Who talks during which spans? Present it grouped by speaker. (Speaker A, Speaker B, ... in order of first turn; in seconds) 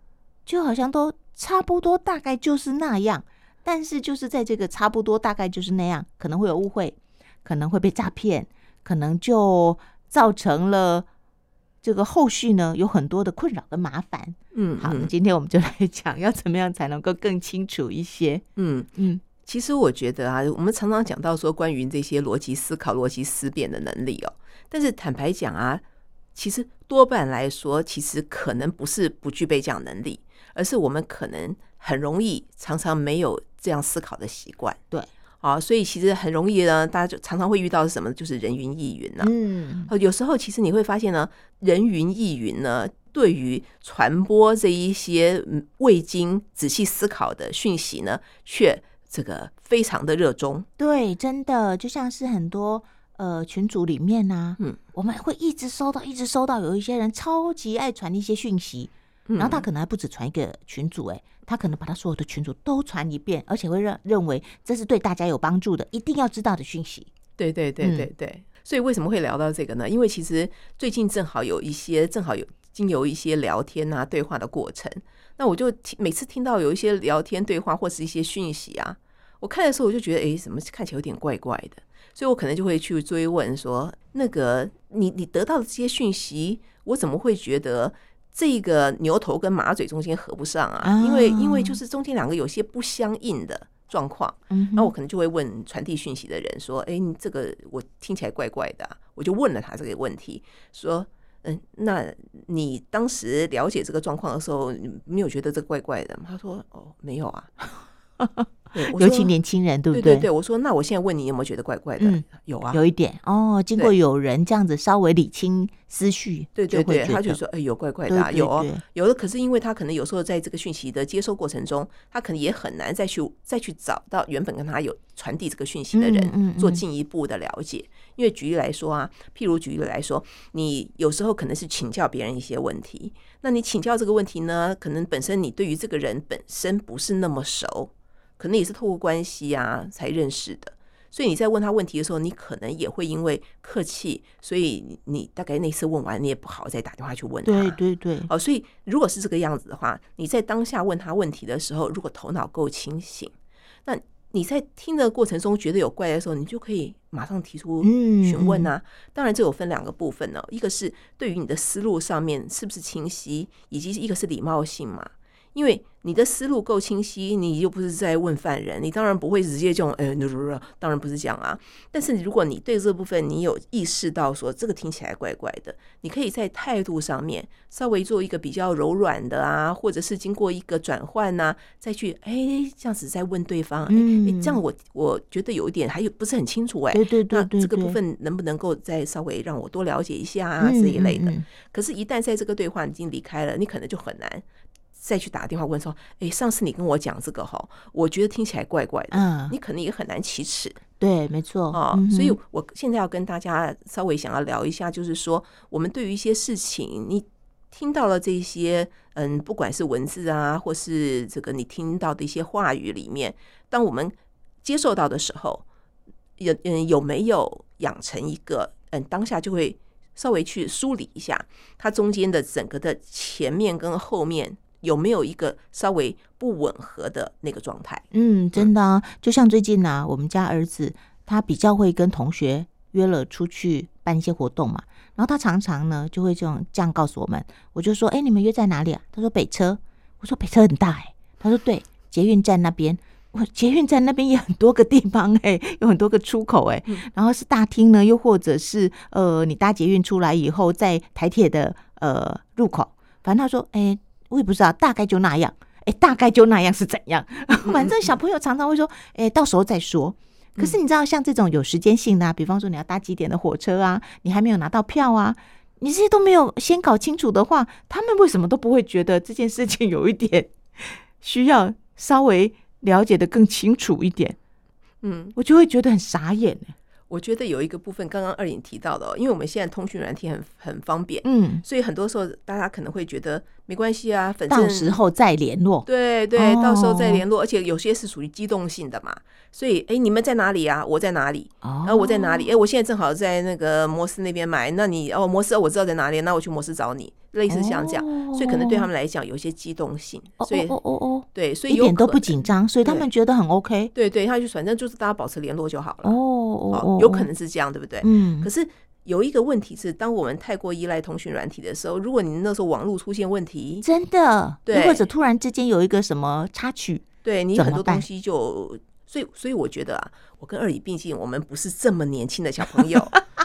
Speaker A: 0.5-11.1, 11.8-18.4, 18.9-19.2, 39.2-39.9, 50.8-67.1, 67.8-68.1, 90.8-91.8, 94.5-94.9, 108.2-110.3, 112.0-117.4, 118.1-118.8, 125.9-126.8, 147.4-148.3, 157.8-158.7, 183.9-184.6, 186.9-188.0, 190.6-191.4, 199.1-199.5, 201.0-202.4, 228.1-274.4, 275.4-276.7, 281.2-281.6, 284.5-287.2, 291.6-292.5, 297.5-298.9, 300.4-303.9, 306.0-307.3, 308.0-308.5, 313.8-318.0
Speaker B: 14.5-15.1, 18.6-18.9, 19.4-25.8, 26.3-34.8, 35.4-39.3, 39.9-50.6, 59.3-59.6, 67.4-107.5, 108.7-109.3, 109.9-112.8, 116.5-153.3, 153.8-194.4, 195.0-200.8, 201.7-215.6, 216.4-228.0, 257.6-258.1, 275.0-275.4, 277.1-285.0, 285.8-300.8, 301.3-303.1, 303.9-306.2, 306.7-313.8, 314.7-315.1, 317.2-323.1